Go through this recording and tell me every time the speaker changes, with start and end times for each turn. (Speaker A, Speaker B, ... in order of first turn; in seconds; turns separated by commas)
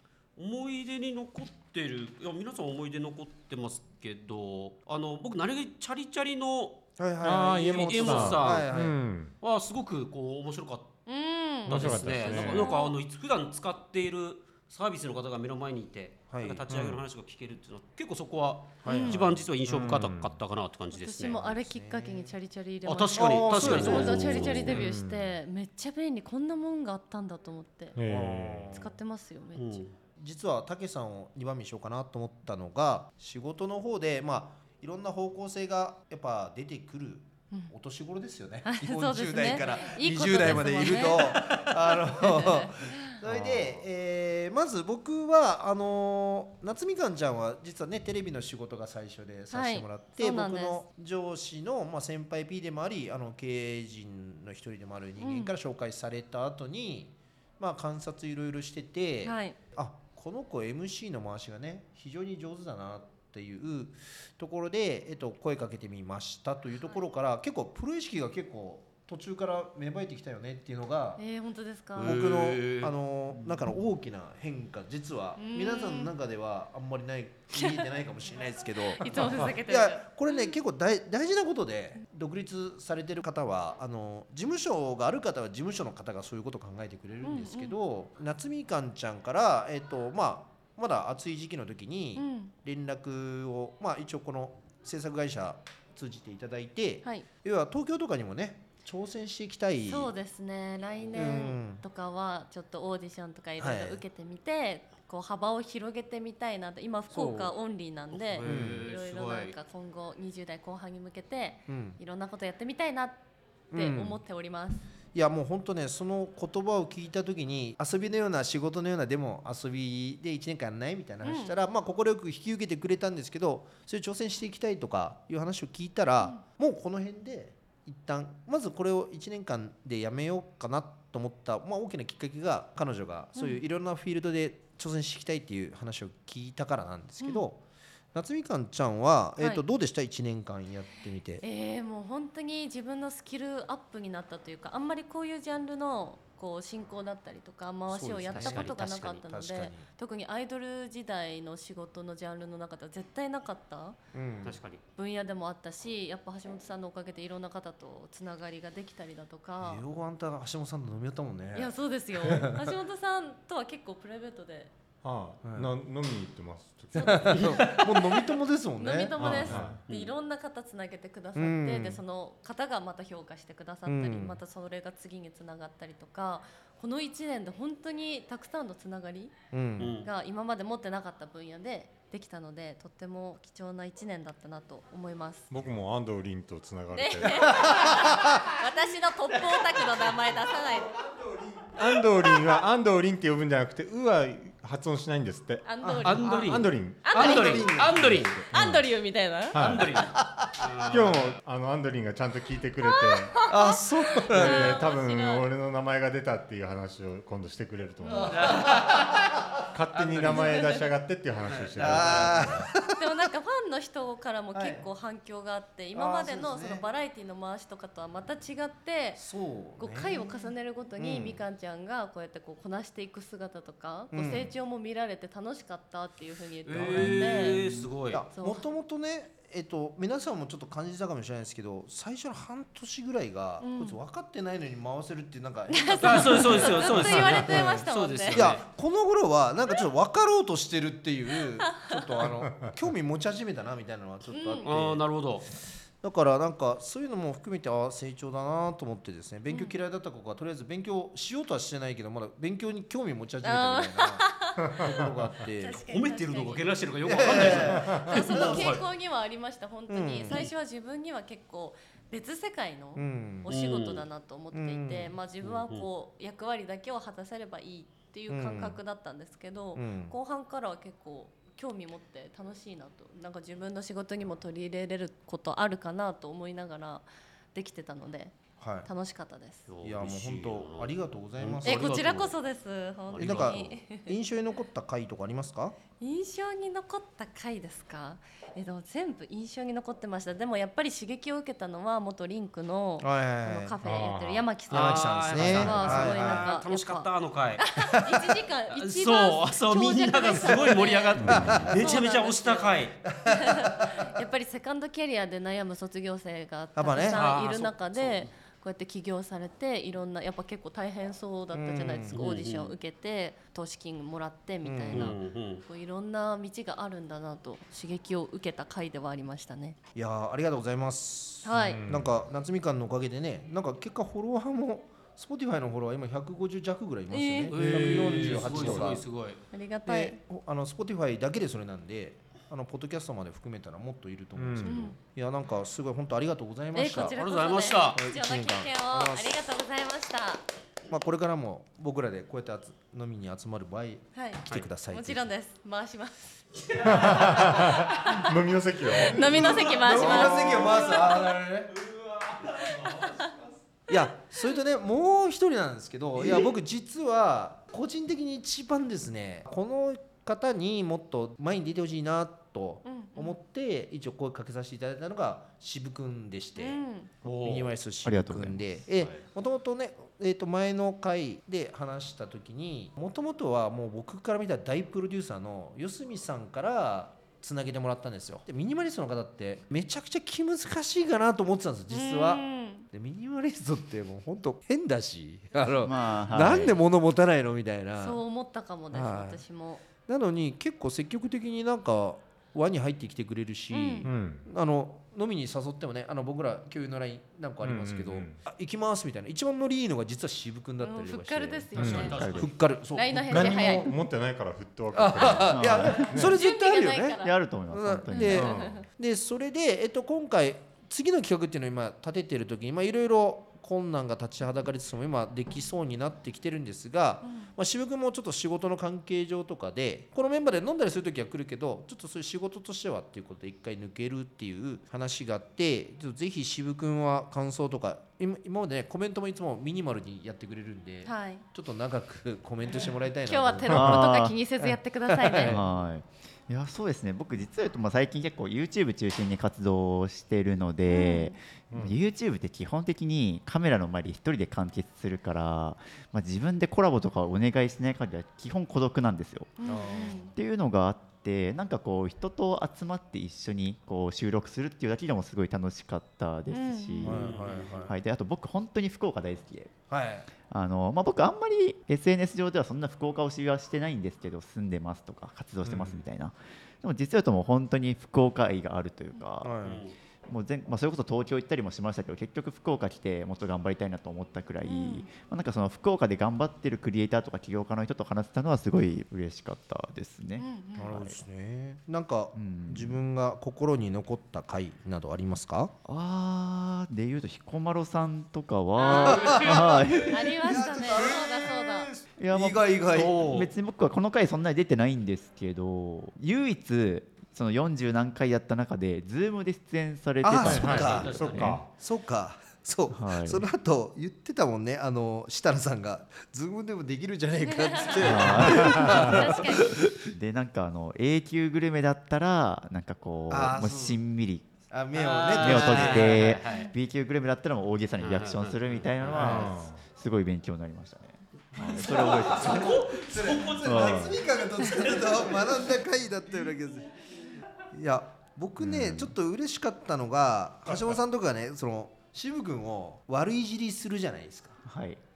Speaker A: 0.3-6.8, Speaker B: 7.0-9.0, Speaker C: 7.2-9.3, Speaker A: 7.5-8.8, Speaker A: 9.4-11.0, Speaker D: 11.1-12.9, Speaker A: 11.6-21.4, Speaker C: 11.7-12.7, Speaker B: 16.3-16.7, Speaker C: 16.7-17.0, Speaker B: 18.8-19.5, Speaker D: 18.8-19.2, Speaker C: 19.6-20.4, Speaker D: 20.9-28.0, Speaker B: 21.3-22.4, Speaker A: 22.8-24.8, Speaker B: 23.1-24.7, Speaker C: 23.9-25.3, Speaker C: 27.9-28.8, Speaker B: 28.1-28.9, Speaker D: 28.7-29.8, Speaker A: 29.5-29.9, Speaker B: 30.2-71.2, Speaker D: 38.6-43.1, Speaker C: 43.2-43.8, Speaker D: 49.5-50.8, Speaker D: 55.2-55.5, Speaker D: 59.2-59.5, Speaker D: 71.2-72.2, Speaker A: 72.0-72.9, Speaker B: 72.0-100.1, Speaker D: 75.3-76.1, Speaker D: 77.5-77.9, Speaker D: 78.9-80.5, Speaker D: 87.2-87.7, Speaker D: 92.1-92.5, Speaker D: 99.8-113.2, Speaker B: 101.1-101.8, Speaker B: 103.6-104.0, Speaker B: 107.1-107.5, Speaker A: 108.1-109.5, Speaker B: 108.4-108.9, Speaker B: 111.7-112.0, Speaker B: 113.7-114.2, Speaker D: 113.7-114.8, Speaker B: 115.1-141.4, Speaker D: 121.2-121.5, Speaker D: 133.3-133.6, Speaker D: 141.4-153.9, Speaker B: 147.9-149.8, Speaker A: 148.2-149.2, Speaker B: 154.1-154.6, Speaker A: 154.4-154.8, Speaker D: 154.9-159.8, Speaker B: 159.6-162.6, Speaker D: 161.5-164.7, Speaker C: 165.0-167.4, Speaker B: 165.4-165.7, Speaker D: 166.9-167.8, Speaker B: 167.0-169.3, Speaker A: 167.4-168.1, Speaker D: 168.8-179.3, Speaker C: 169.2-169.8, Speaker A: 169.5-170.1, Speaker B: 171.3-172.0, Speaker B: 173.8-174.4, Speaker B: 179.5-179.9, Speaker A: 179.8-180.1, Speaker D: 180.0-185.5, Speaker C: 185.5-187.6, Speaker D: 186.9-191.0, Speaker B: 187.6-187.9, Speaker B: 191.1-191.4, Speaker C: 191.7-197.2, Speaker D: 195.6-197.9, Speaker B: 195.8-196.3, Speaker A: 196.0-198.4, Speaker B: 197.1-198.5, Speaker C: 198.0-198.8, Speaker D: 198.5-200.0, Speaker C: 199.5-199.9, Speaker A: 199.6-201.3, Speaker C: 200.9-203.4, Speaker D: 202.8-205.4, Speaker B: 203.5-204.8, Speaker C: 204.1-208.5, Speaker D: 208.0-208.7, Speaker B: 208.1-209.1, Speaker A: 208.2-209.3, Speaker C: 209.7-212.7, Speaker A: 209.9-210.3, Speaker B: 210.0-210.5, Speaker D: 210.2-210.9, Speaker A: 211.4-212.5, Speaker B: 211.8-213.0, Speaker D: 212.9-219.2, Speaker B: 214.5-214.9, Speaker B: 215.9-216.8, Speaker B: 219.2-221.4, Speaker D: 219.8-227.6, Speaker B: 224.1-224.5, Speaker A: 226.6-228.2, Speaker B: 226.7-255.8, Speaker D: 228.3-228.6, Speaker D: 233.6-234.0, Speaker D: 235.7-238.5, Speaker A: 236.0-238.6, Speaker D: 241.6-241.9, Speaker D: 244.3-244.7, Speaker A: 244.6-245.4, Speaker D: 253.4-279.6, Speaker C: 254.7-255.1, Speaker A: 255.8-258.8, Speaker B: 257.0-258.7, Speaker B: 259.9-260.4, Speaker B: 262.9-263.5, Speaker A: 263.5-264.1, Speaker B: 264.5-265.2, Speaker A: 265.4-265.9, Speaker B: 268.3-268.8, Speaker B: 269.7-270.1, Speaker B: 278.6-278.9, Speaker A: 279.7-282.3, Speaker B: 279.8-282.3, Speaker D: 281.6-284.1, Speaker A: 283.1-283.7, Speaker B: 283.1-285.8, Speaker D: 286.0-319.8, Speaker B: 293.0-293.8, Speaker C: 293.8-294.6, Speaker B: 294.7-296.5, Speaker A: 294.7-298.1, Speaker C: 295.4-296.0, Speaker A: 298.7-303.0, Speaker E: 301.2-301.7, Speaker B: 301.3-301.9, Speaker B: 303.0-304.0, Speaker B: 306.7-307.2, Speaker A: 307.1-308.3, Speaker B: 311.5-312.2, Speaker A: 312.1-312.8, Speaker B: 314.6-315.1, Speaker A: 314.9-315.6, Speaker B: 319.9-329.1, Speaker D: 321.4-321.8, Speaker C: 321.5-322.2, Speaker D: 327.1-327.7, Speaker A: 327.5-329.4, Speaker C: 327.5-328.8, Speaker D: 329.5-330.1, Speaker B: 329.8-337.2, Speaker C: 334.3-334.9, Speaker D: 334.6-335.0, Speaker D: 336.7-340.4, Speaker A: 337.0-338.0, Speaker B: 337.9-339.3, Speaker B: 340.9-345.3, Speaker D: 344.1-348.2, Speaker C: 346.8-349.5, Speaker D: 348.9-350.8, Speaker B: 349.2-351.7, Speaker A: 349.4-353.3, Speaker D: 352.7-353.3, Speaker B: 353.9-388.2, Speaker D: 362.8-363.4, Speaker D: 366.6-367.1, Speaker A: 367.2-367.7, Speaker E: 368.0-369.1, Speaker D: 381.9-382.9, Speaker E: 385.8-386.8, Speaker D: 388.0-389.8, Speaker B: 388.9-389.4, Speaker B: 390.1-403.9, Speaker D: 393.7-394.1, Speaker C: 394.0-394.5, Speaker C: 397.6-398.4, Speaker D: 400.8-402.2, Speaker C: 401.8-402.2, Speaker A: 401.8-402.5, Speaker E: 402.1-402.5, Speaker D: 402.9-403.9, Speaker C: 403.3-406.4, Speaker B: 404.9-435.6, Speaker E: 405.4-406.1, Speaker D: 406.3-407.4, Speaker E: 407.2-408.6, Speaker D: 408.1-408.8, Speaker C: 408.3-408.8, Speaker D: 417.2-417.5, Speaker D: 431.0-431.4, Speaker D: 433.2-435.6, Speaker E: 433.7-434.4, Speaker E: 435.4-449.6, Speaker D: 440.9-441.4, Speaker C: 441.7-442.0, Speaker D: 449.6-450.3, Speaker B: 449.6-450.3, Speaker E: 450.3-459.7, Speaker D: 456.5-457.1, Speaker A: 457.0-457.9, Speaker B: 457.0-457.9, Speaker B: 459.9-460.3, Speaker E: 460.5-469.5, Speaker B: 469.4-469.8, Speaker A: 469.6-469.9, Speaker E: 470.3-481.2, Speaker D: 474.6-475.1, Speaker D: 480.4-480.9, Speaker B: 480.8-485.7, Speaker E: 482.3-483.0, Speaker E: 485.9-490.6, Speaker A: 488.8-490.0, Speaker B: 488.8-493.4, Speaker D: 488.8-491.9, Speaker E: 492.2-501.6, Speaker A: 492.9-493.5, Speaker B: 500.2-509.9, Speaker C: 500.4-501.7, Speaker A: 500.6-501.5, Speaker E: 502.9-503.4, Speaker D: 507.6-509.8, Speaker E: 508.0-514.5, Speaker B: 513.3-514.0, Speaker B: 514.7-516.4, Speaker A: 514.9-516.7, Speaker E: 515.4-522.7, Speaker A: 518.0-519.5, Speaker C: 519.0-519.8, Speaker A: 521.5-525.0, Speaker B: 521.8-526.9, Speaker E: 523.6-524.2, Speaker B: 527.7-534.6, Speaker E: 528.6-529.1, Speaker E: 534.6-535.0